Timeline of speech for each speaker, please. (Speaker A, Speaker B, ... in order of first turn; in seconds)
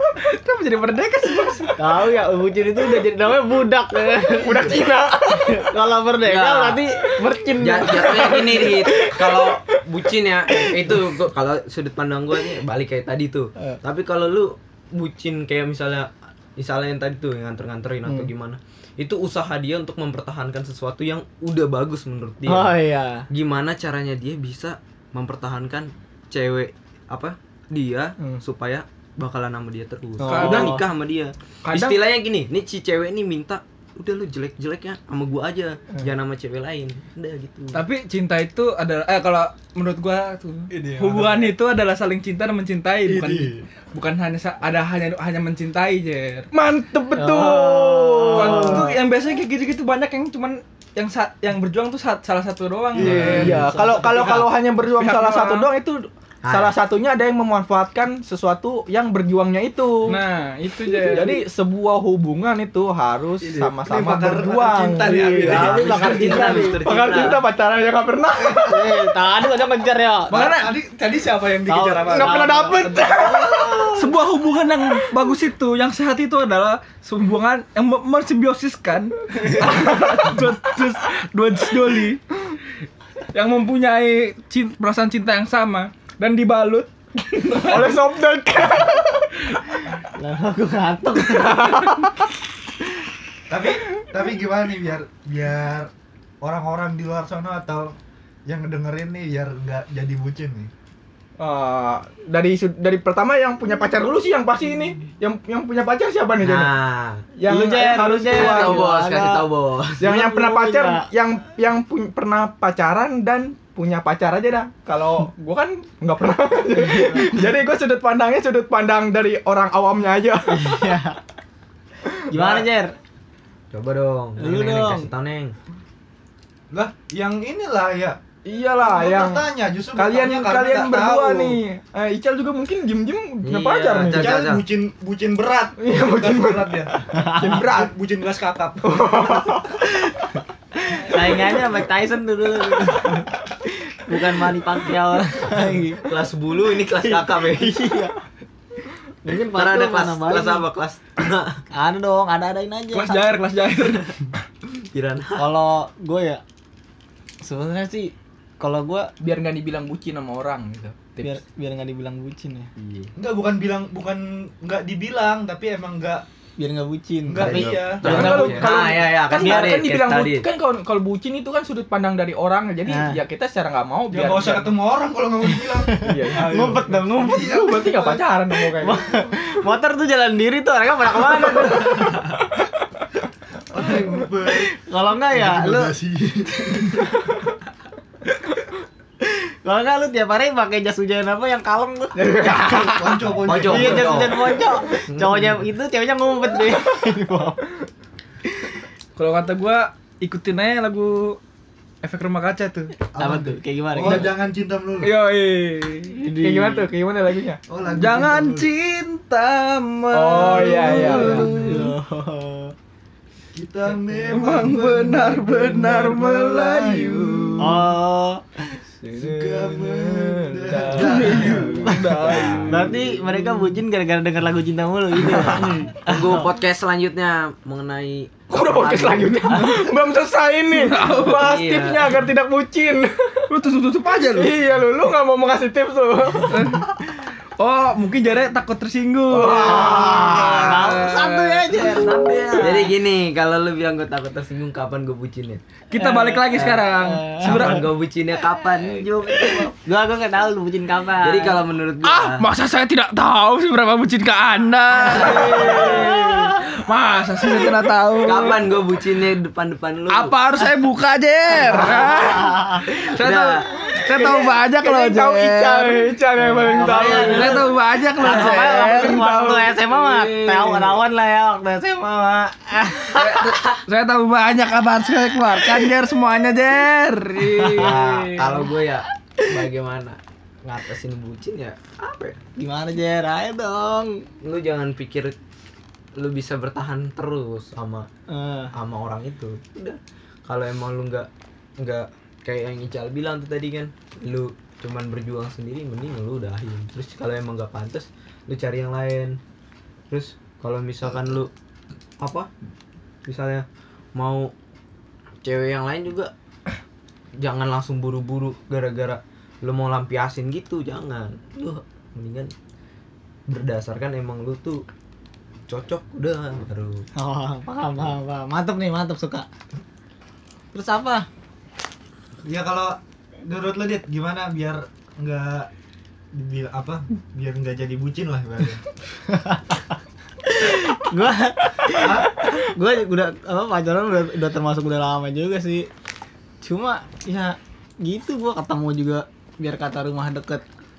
Speaker A: 0.3-1.8, 30.3-30.8, 37.7-46.5, 48.2-53.6, 55.0-55.7, 60.1-61.4, 70.3-70.7, 73.9-82.2, 83.3-88.0, 152.9-154.3, 199.2-201.4, 202.0-203.0, 205.0-206.2, 207.9-211.9, 214.1-217.8, 219.0-219.6, 220.9-223.0, 225.3-225.9, 230.7-231.5, 233.5-234.5, 236.5-242.5, 245.9-247.8, 252.0-258.6, 260.1-266.1, 266.8-271.0, 273.1-278.6
Speaker B: 1.3-1.6, 4.4-5.6, 8.0-9.2, 31.7-32.0, 46.5-48.9, 53.0-60.2, 61.0-65.3, 66.5-68.8, 72.1-73.8, 79.7-80.3, 87.5-89.2, 91.5-92.0, 101.4-106.7, 107.3-108.8, 110.0-120.7, 128.4-134.3, 135.8-137.9, 138.8-139.6, 159.2-161.4, 168.0-174.7, 176.0-179.1, 192.2-192.9, 206.4-207.6, 210.1-211.5, 219.4-222.7, 228.5-233.4, 234.3-236.8, 239.3-240.9, 264.0-267.6, 268.6-269.6
Speaker C: 1.8-8.5, 22.4-23.3, 30.2-30.9, 47.1-49.0, 65.0-66.8, 68.7-70.5, 71.7-73.9, 90.1-92.1, 107.5-109.5, 110.0-111.0, 120.5-121.2, 122.3-123.0, 124.4-125.1, 137.2-137.6, 141.0-146.1, 147.0-148.1, 149.2-150.7, 151.7-153.3, 155.4-156.4, 157.4-159.1, 161.2-162.7, 166.6-168.7, 169.4-169.8, 172.9-173.2, 175.7-177.5, 178.8-182.3, 184.5-185.9, 189.2-197.6, 203.2-204.3, 206.2-206.9, 210.9-212.7, 217.6-218.8, 222.7-226.4, 239.4-242.9, 246.0-247.8, 249.3-251.6, 255.1-256.6, 261.7-262.9, 266.4-273.6, 275.6-275.9, 277.4-278.0, 282.6-284.2, 288.3-288.7, 317.2-319.5, 320.7-321.3, 329.2-335.9, 336.6-340.6
Speaker D: 6.2-6.8, 7.6-22.8, 23.3-37.8, 56.4-56.7, 65.4-67.4, 106.4-107.2, 108.3-110.1, 123.7-125.5, 133.4-134.7, 146.0-147.9, 149.5-151.6, 154.8-155.5, 162.8-163.1, 167.4-170.5, 193.4-194.5, 195.1-195.6, 226.0-229.8, 231.3-232.2, 242.6-245.6, 246.5-249.7, 251.2-252.5, 255.2-256.1, 258.2-260.3, 263.2-263.7, 268.2-268.7, 277.8-282.4, 284.4-285.4, 286.2-288.1, 288.7-299.4, 300.1-301.5, 302.2-302.5, 303.3-304.5, 305.4-306.3, 307.4-312.5, 313.5-314.8, 315.7-317.1
Speaker E: 40.7-41.5, 43.0-43.7, 52.9-54.5, 63.4-66.7, 68.4-68.9, 70.3-73.9, 93.5-95.9, 96.4-100.7, 122.3-122.7, 126.7-128.2, 128.8-131.6, 134.1-139.6, 163.2-166.2, 167.3-168.6, 174.1-178.2, 181.7-182.2, 183.7-184.7, 185.3-187.3, 192.7-194.4, 203.1-205.2, 207.7-208.7, 210.4-211.9, 213.5-217.9, 219.1-223.0, 225.5-225.9, 322.4-325.7, 326.3-328.9, 331.9-332.6